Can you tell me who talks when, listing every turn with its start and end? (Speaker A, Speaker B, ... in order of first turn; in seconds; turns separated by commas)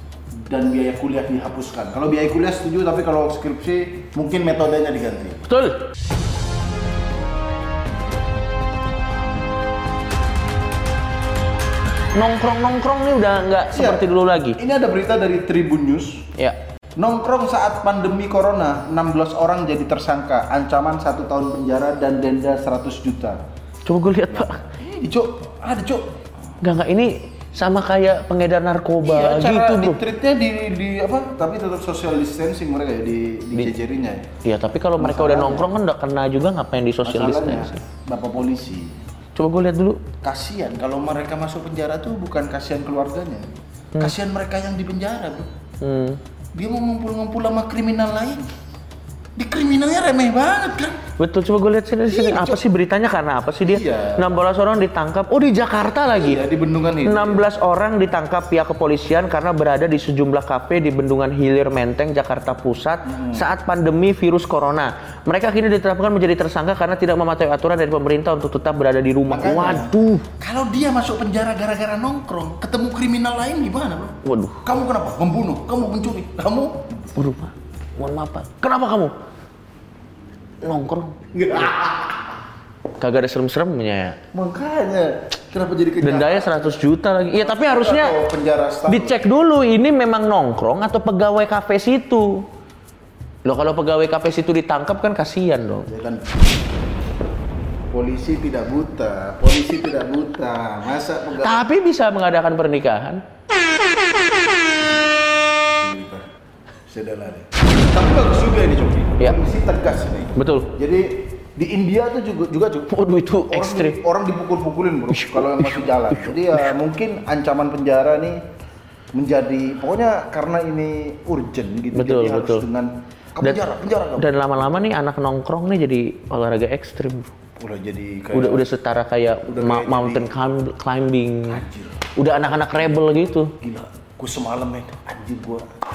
Speaker A: 0.3-5.4, Speaker B: 5.5-5.8, Speaker B: 12.2-14.6, Speaker A: 13.7-14.1, Speaker A: 14.6-16.3, Speaker A: 17.0-23.4, Speaker B: 23.9-24.6, Speaker A: 24.3-26.1, Speaker B: 26.6-30.0, Speaker A: 29.0-34.3, Speaker B: 34.4-37.8, Speaker A: 35.0-35.7, Speaker A: 37.0-39.0, Speaker B: 39.4-40.0, Speaker A: 40.2-43.5, Speaker A: 44.0-45.5, Speaker B: 45.8-46.2, Speaker A: 46.5-48.5, Speaker A: 49.4-51.0, Speaker B: 51.2-56.4, Speaker A: 52.1-52.6, Speaker A: 53.6-54.3, Speaker A: 56.1-57.5, Speaker B: 57.0-70.2, Speaker A: 63.0-63.5, Speaker A: 69.3-76.9, Speaker B: 74.2-74.6, Speaker B: 77.2-79.1, Speaker B: 80.6-81.9, Speaker A: 81.3-82.1, Speaker B: 83.0-84.2, Speaker A: 84.3-86.8, Speaker B: 86.0-88.2, Speaker A: 87.3-89.2, Speaker B: 88.9-92.4, Speaker B: 93.5-95.9, Speaker A: 95.9-96.3, Speaker A: 97.9-101.6, Speaker B: 101.4-103.2, Speaker A: 105.8-106.3, Speaker A: 106.9-112.9, Speaker B: 110.4-110.7, Speaker B: 112.9-114.0, Speaker A: 113.5-118.4, Speaker B: 115.1-116.7, Speaker A: 119.1-124.3, Speaker B: 121.9-122.7, Speaker B: 124.2-127.3, Speaker A: 127.6-128.7, Speaker B: 128.3-131.6, Speaker A: 129.5-130.3, Speaker A: 131.5-132.1, Speaker B: 132.2-133.5, Speaker A: 133.6-135.7